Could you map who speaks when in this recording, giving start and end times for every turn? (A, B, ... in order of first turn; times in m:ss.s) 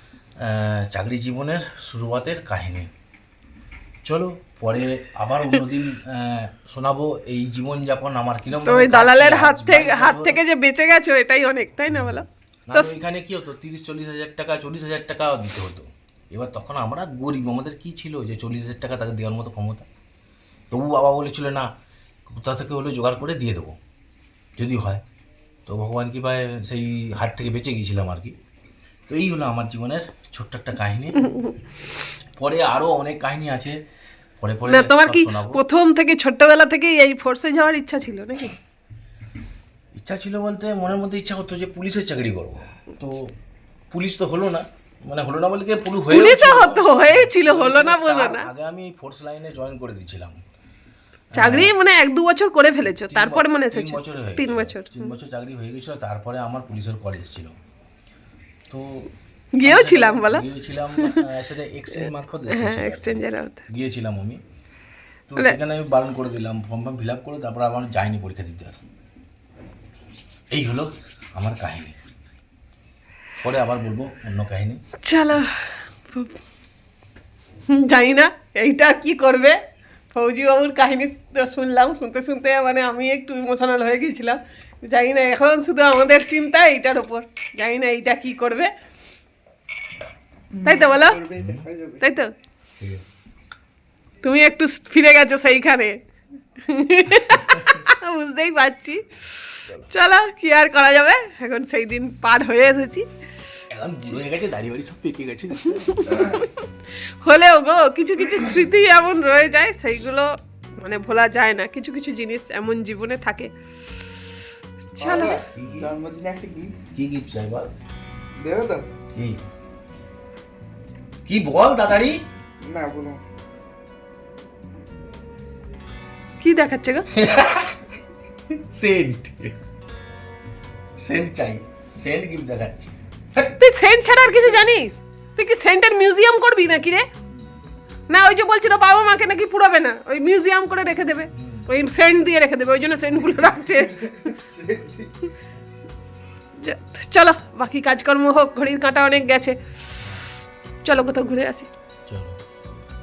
0:00.4-0:02.9 A
0:04.0-0:10.4 A
0:08.6-0:13.0 B
0:11.9-0:19.9 A
0:20.7-0:21.7 A
0:22.3-0:23.8 A
0:24.6-0:25.0 A
0:25.7-0:28.4 A
0:29.1-0:31.2 A
0:31.2-0:31.6 B
0:32.4-0:33.8 A
0:34.4-0:35.6 A
0:34.6-0:38.6 B
0:40.0-0:43.3 A
0:43.9-0:50.4 A
0:46.1-0:48.5 B
0:51.3-0:51.7 A
0:51.4-0:55.1 B
0:53.0-0:57.6 A
0:58.7-0:59.1 A
0:59.6-1:01.2 B
0:59.6-1:04.4 A
1:02.5-1:03.6 B
1:05.3-1:08.8 A
1:10.5-1:12.0 A
1:13.4-1:14.8 A
1:15.0-1:16.4 B
1:17.7-1:19.6 B
1:20.1-1:28.7 B
1:30.6-1:31.2 B
1:31.0-1:32.0 C
1:31.4-1:31.7 A
1:32.0-1:32.3 B
1:34.2-1:36.0 B
1:36.6-1:43.1 B
1:43.7-1:46.4 A
1:45.7-1:53.5 B
1:55.0-1:55.4 B
1:55.0-1:56.8 C
1:55.0-1:55.9 A
1:56.9-1:57.7 A
1:58.4-1:58.9 C
1:59.1-1:59.4 A
2:01.3-2:02.2 A
2:02.6-2:03.2 C
2:06.4-2:07.1 B
2:07.1-2:07.8 A
2:08.5-2:09.6 A
2:11.0-2:13.0 A
2:13.4-2:17.1 B
2:18.1-2:24.4 B
2:21.4-2:21.7 A
2:24.7-2:25.0 C
2:26.6-2:29.6 B
2:30.0-2:30.3 A
2:30.8-2:31.7 B
2:32.1-2:32.4 A